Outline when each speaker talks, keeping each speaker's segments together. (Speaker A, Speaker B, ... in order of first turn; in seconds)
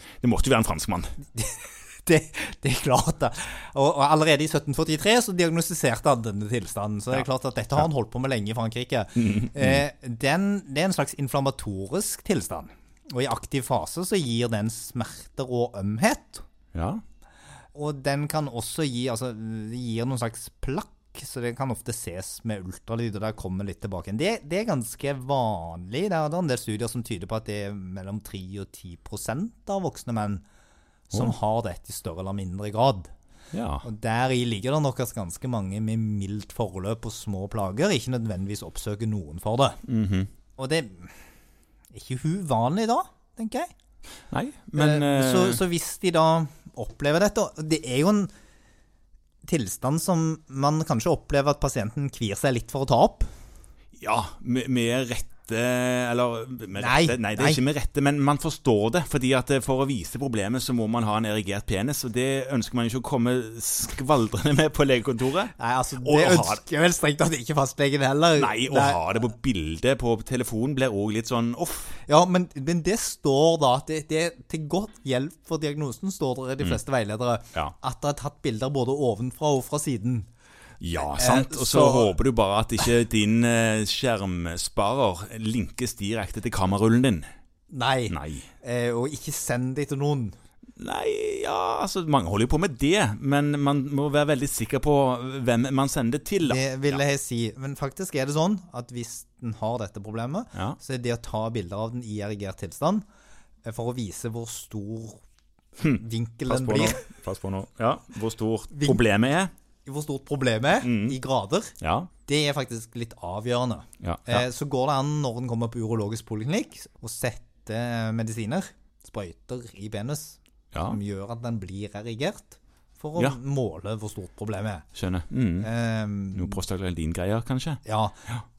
Speaker A: 0.2-1.2, 9.2-9.8, 16.7-17.0, 33.5-33.9, 39.9-40.3, 44.3-45.6, 54.0-66.6, 68.4-72.0, 80.8-87.2, 88.1-88.5, 90.8-97.0, 105.8-109.5, 110.8-111.2, 111.8-112.1, 114.0-114.5, 120.7-121.0, 124.9-125.7, 126.3-128.4
Speaker B: 1.3-16.4, 17.7-30.4, 31.1-33.1, 33.8-39.8, 40.6-41.2, 41.9-43.7, 44.8-48.3, 49.4-53.3, 56.8-57.6, 65.6-69.0, 72.0-80.3, 81.1-82.1, 87.7-90.3, 96.4-103.0, 103.6-105.2, 105.9-107.0, 108.7-109.0, 109.8-111.7, 112.2-124.8, 125.6-126.6, 127.8-128.2